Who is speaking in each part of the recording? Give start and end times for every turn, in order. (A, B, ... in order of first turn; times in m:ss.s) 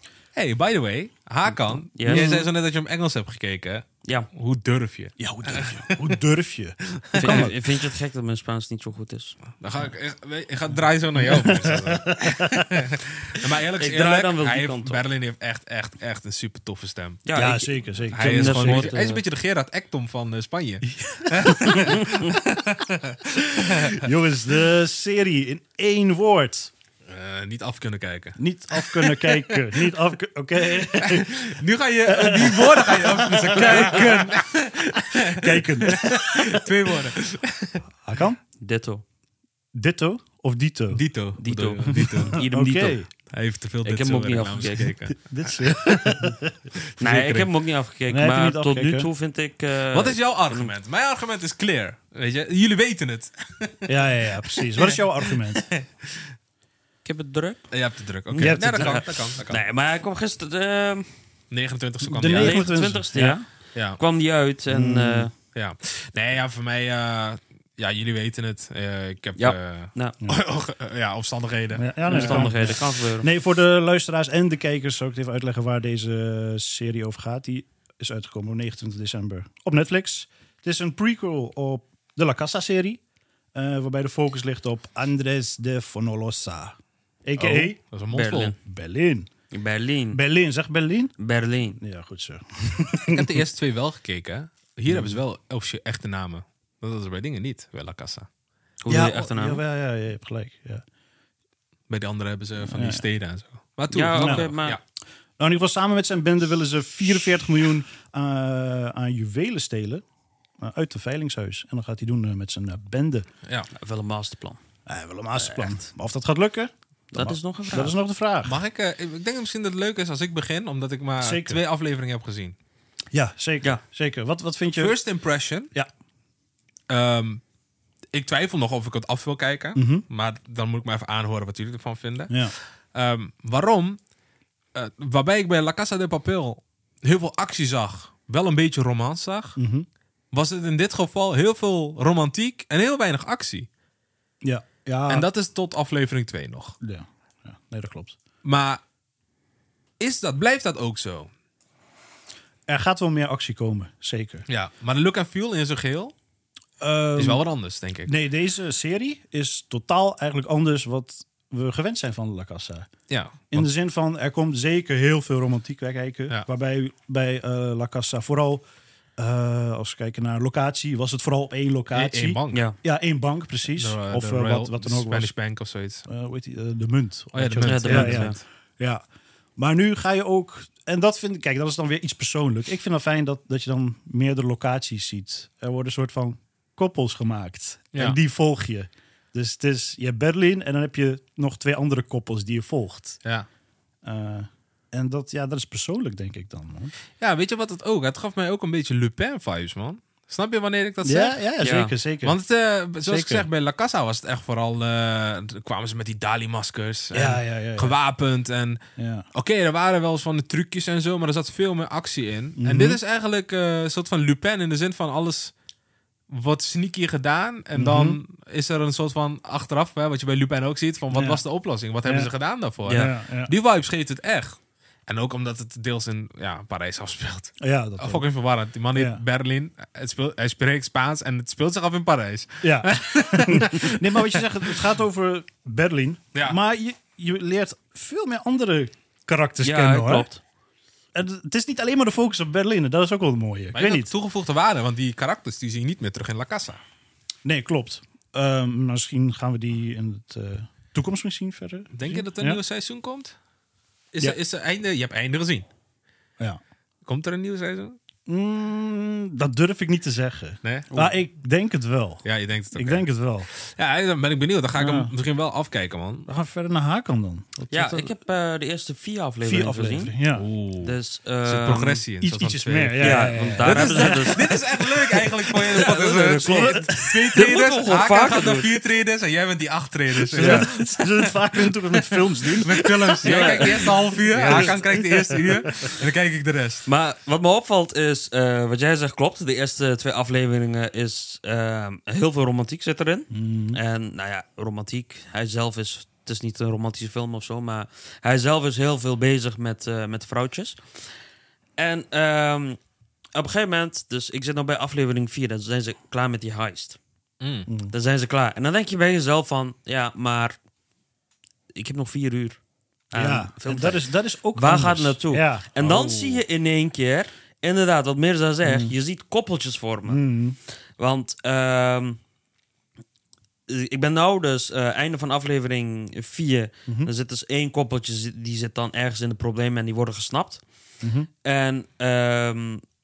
0:00.3-0:06.2 A
0:01.8-0:02.4 B
0:02.1-0:02.4 C
0:05.2-0:07.5 C
0:06.9-0:07.5 A
0:07.2-0:09.4 B
0:09.6-0:17.2 A
0:11.2-0:12.8 C
0:13.8-0:15.0 B
0:17.2-0:19.2 B
0:17.3-0:19.0 C
0:18.1-0:24.1 A
0:20.9-0:22.0 C
0:21.7-0:22.3 B
0:23.7-0:26.7 C
0:27.1-0:29.5 A
0:28.4-0:34.4 C
0:30.9-0:37.8 A
0:35.0-0:36.6 C
0:38.0-0:38.4 C
0:38.6-0:39.0 B
0:39.7-0:41.0 C
0:40.9-0:42.4 A
0:41.4-0:43.0 B
0:41.9-0:43.1 C
0:43.3-0:46.3 A
0:43.8-0:44.9 B
0:45.1-0:46.6 C
0:47.0-0:47.5 A
0:47.0-0:50.7 B
0:48.1-0:49.1 C
0:49.9-0:56.3 A
0:53.9-0:55.7 C
0:57.0-0:57.7 B
0:57.7-0:59.6 A
0:58.3-1:01.1 B
0:58.4-0:59.0 C
1:01.5-1:02.6 A
1:02.0-1:03.4 C
1:02.3-1:03.4 B
1:04.0-1:05.3 B
1:04.7-1:05.3 C
1:05.5-1:12.5 A
1:09.4-1:10.2 B
1:11.7-1:23.0 C
1:12.1-1:13.3 B
1:23.5-1:27.8 C
1:27.4-1:28.5 A
1:28.1-1:28.6 B
1:28.6-1:29.3 C
1:29.5-1:30.2 B
1:30.1-1:31.1 C
1:31.2-1:31.8 B
1:31.8-1:33.4 C
1:33.0-1:38.3 A
1:34.9-1:35.2 C
1:38.8-1:39.6 B
1:38.9-1:40.8 C
1:41.9-1:44.8 A
1:42.6-1:43.0 C
1:43.9-1:44.8 B
1:44.1-1:44.5 C
1:45.4-1:50.0 C
1:50.6-1:53.3 C
1:53.7-1:54.6 B
1:54.8-1:58.6 C
1:55.4-1:55.7 B
1:57.1-1:58.0 B
1:58.4-2:02.5 A
2:01.2-2:01.6 C
2:03.1-2:05.0 C
2:04.7-2:05.7 A
2:06.9-2:07.4 A
2:08.1-2:14.0 A
2:09.7-2:10.0 C
2:12.3-2:12.5 C
2:14.7-2:19.6 A
2:19.6-2:19.9 C
2:20.3-2:23.7 A
2:24.4-2:25.3 C
2:25.1-2:26.8 A
2:26.8-2:28.2 C
2:28.4-2:28.8 A
2:30.0-2:31.3 A
2:32.7-2:34.4 C
2:34.5-2:36.1 A
2:36.8-2:37.4 C
2:37.2-2:38.1 A
2:38.0-2:42.9 C
2:43.1-2:43.7 A
2:43.5-2:48.6 C
2:49.2-2:55.3 C
2:51.9-2:52.6 A
2:53.7-2:56.1 A
2:56.1-2:59.0 C
2:57.3-2:58.4 A
2:57.6-2:58.4 B
2:59.6-3:13.2 C
3:14.0-3:16.9 C
3:17.2-3:21.4 A
3:21.0-3:22.4 C
3:21.6-3:21.9 B
3:22.2-3:28.8 A
3:23.0-3:23.5 C
3:27.1-3:28.0 C
3:29.0-3:29.2 C
3:29.3-3:35.5 A
3:32.6-3:33.0 C
3:36.3-3:54.7 A
3:37.7-3:38.2 C
3:41.1-3:41.4 C
3:42.0-3:42.3 C
3:42.9-3:43.5 C
3:47.6-3:48.2 C
3:48.9-3:49.2 C
3:52.6-4:00.3 C
3:59.6-4:00.4 B
4:01.1-4:04.1 C
4:03.7-4:06.8 A
4:07.4-4:12.6 C
4:11.9-4:13.3 A
4:14.1-4:15.7 A
4:17.0-4:18.0 A
4:18.3-4:23.5 C
4:20.6-4:21.0 A
4:22.2-4:26.3 A
4:24.8-4:25.1 C
4:26.3-4:28.1 C
4:27.7-4:30.1 B
4:29.4-4:30.4 C
4:30.3-4:46.9 A
4:30.8-4:32.0 B
4:32.2-4:34.6 C
4:33.0-4:34.6 B
4:35.4-4:38.7 B
4:35.7-4:37.3 C
4:40.3-4:45.9 C
4:40.3-4:40.7 B
4:43.2-4:44.8 B
4:46.8-5:01.0 B
4:53.3-4:53.8 C
5:01.8-5:02.8 B
5:03.3-5:07.0 B
5:07.4-5:07.7 A
5:07.7-5:07.9 C
5:07.9-5:10.6 B
5:11.7-5:12.6 B
5:13.1-5:20.2 B
5:13.1-5:15.7 C
5:15.8-5:16.4 A
5:18.6-5:18.9 C
5:20.1-5:20.6 C
5:21.0-5:22.2 B
5:23.7-5:30.6 B
5:31.0-5:31.3 C
5:31.4-5:32.8 B